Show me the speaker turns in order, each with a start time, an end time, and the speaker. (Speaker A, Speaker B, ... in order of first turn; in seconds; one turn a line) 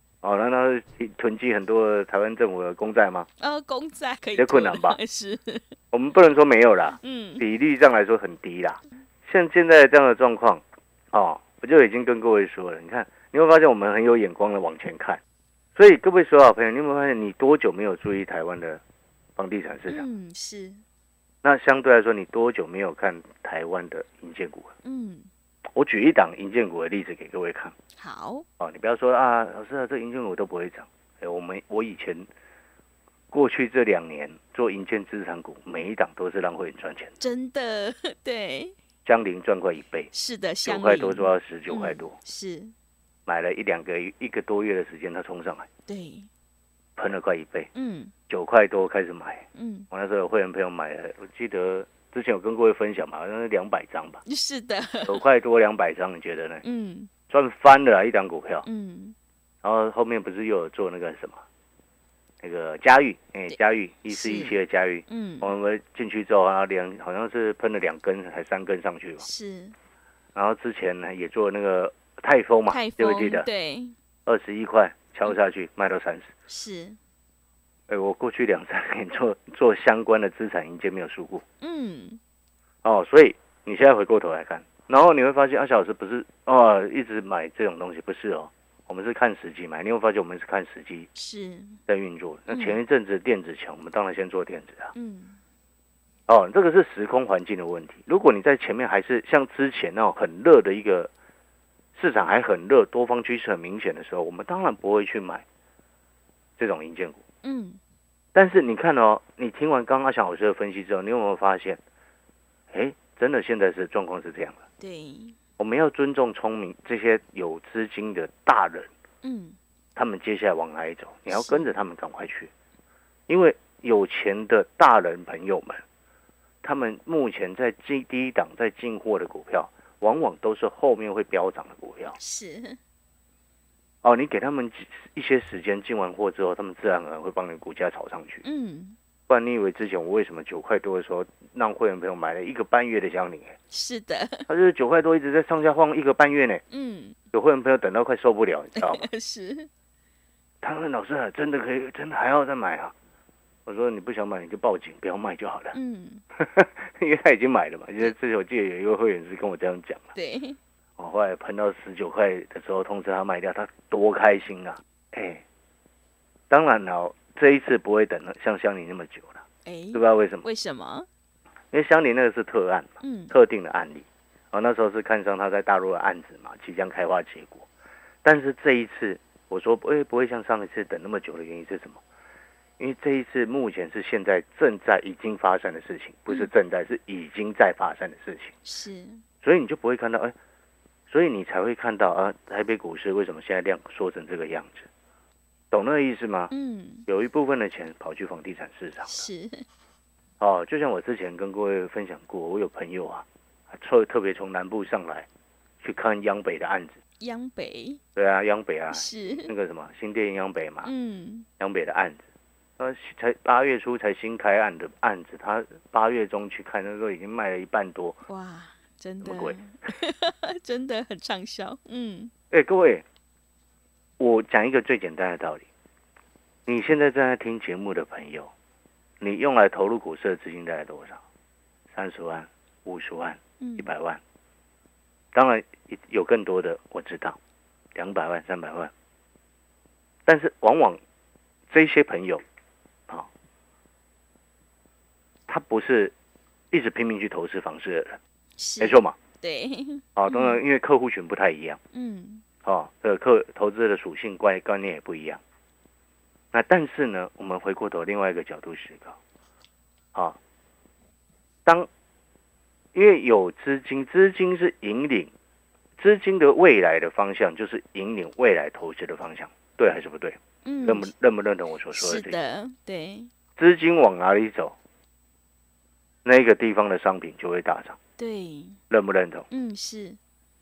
Speaker A: 0.2-3.3
Speaker B: 3.4-5.8
Speaker A: 4.4-5.0
Speaker A: 5.9-15.2
Speaker B: 7.0-7.4
Speaker A: 15.8-18.8
Speaker A: 19.4-20.1
Speaker B: 19.9-20.8
Speaker A: 21.4-24.7
Speaker B: 24.8-25.3
Speaker A: 25.8-27.7
Speaker B: 28.0-28.5
Speaker A: 28.6-32.3
Speaker A: 33.3-37.1
Speaker B: 37.2-38.8
Speaker A: 39.0-40.1
Speaker B: 40.1-42.7
Speaker A: 40.6-42.2
Speaker A: 43.3-45.7
Speaker B: 45.9-46.3
Speaker A: 47.0-47.7
Speaker B: 47.8-48.1
Speaker A: 48.3-54.2
Speaker B: 49.5-49.9
Speaker B: 54.3-55.2
Speaker A: 55.0-56.6
Speaker B: 56.6-57.1
Speaker A: 57.3-58.7
Speaker B: 58.6-59.2
Speaker A: 59.6-61.4
Speaker A: 62.4-69.2
Speaker B: 64.1-64.6
Speaker B: 65.1-65.5
Speaker B: 69.2-69.8
Speaker A: 70.3-73.5
Speaker B: 72.7-74.0
Speaker A: 74.3-76.3
Speaker B: 76.5-77.0
Speaker A: 77.9-81.4
Speaker B: 81.6-82.2
Speaker A: 82.8-91.1
Speaker B: 91.2-91.8
Speaker A: 91.9-94.9
Speaker B: 92.5-92.8
Speaker B: 95.0-95.4
Speaker A: 96.3-101.1
Speaker A: 102.0-105.5
Speaker A: 106.6-107.2
Speaker B: 107.4-107.8
Speaker A: 108.3-111.8
Speaker A: 112.7-114.6
Speaker B: 114.8-115.4
Speaker A: 115.6-118.9
Speaker B: 119.2-119.6
Speaker A: 120.0-122.5
Speaker B: 121.3-121.8
Speaker A: 123.3-125.8
Speaker A: 126.6-132.2
Speaker B: 132.2-132.8
Speaker A: 134.0-138.4
Speaker B: 138.4-139.0
Speaker A: 139.3-143.6
Speaker B: 143.7-144.5
Speaker A: 144.5-146.6
Speaker B: 146.7-147.2
Speaker A: 147.3-149.1
Speaker B: 148.8-149.7
Speaker A: 150.6-152.9
Speaker A: 153.7-155.8
Speaker B: 155.7-156.2
Speaker A: 156.4-160.1
Speaker B: 160.2-160.6
Speaker A: 161.0-165.4
Speaker A: 166.5-170.4
Speaker B: 169.7-171.1
Speaker A: 171.7-177.7
Speaker B: 173.0-173.3
Speaker A: 178.2-182.0
Speaker A: 182.8-188.5
Speaker B: 188.6-189.2
Speaker A: 189.4-190.3
Speaker A: 191.1-194.9
Speaker A: 195.7-196.5
Speaker B: 196.5-197.1
Speaker A: 197.1-199.3
Speaker B: 199.1-199.7
Speaker A: 200.4-205.3
Speaker A: 205.8-207.0
Speaker B: 207.2-208.0
Speaker A: 208.2-210.9
Speaker B: 208.9-209.5
Speaker B: 210.8-211.5
Speaker A: 211.6-212.2
Speaker A: 212.8-218.2
Speaker B: 218.3-222.3
Speaker A: 219.2-219.6
Speaker A: 222.5-223.1
Speaker A: 224.2-225.7
Speaker A: 226.7-228.5
Speaker A: 229.2-231.2
Speaker A: 231.9-234.2
Speaker B: 233.6-233.9
Speaker A: 235.3-237.4
Speaker A: 237.9-238.9
Speaker A: 240.3-241.0
Speaker A: 241.7-242.4
Speaker A: 245.5-246.1
Speaker A: 246.7-248.2
Speaker B: 248.6-250.6
Speaker A: 248.8-249.2
Speaker A: 250.2-251.8
Speaker B: 251.9-252.4
Speaker A: 252.6-255.4
Speaker A: 256.5-259.2
Speaker A: 262.9-265.3
Speaker A: 266.0-272.4
Speaker B: 270.6-271.1
Speaker B: 271.9-273.3
Speaker A: 273.6-274.8
Speaker A: 276.2-278.0
Speaker B: 278.2-278.8
Speaker A: 278.9-279.5
Speaker B: 279.5-280.2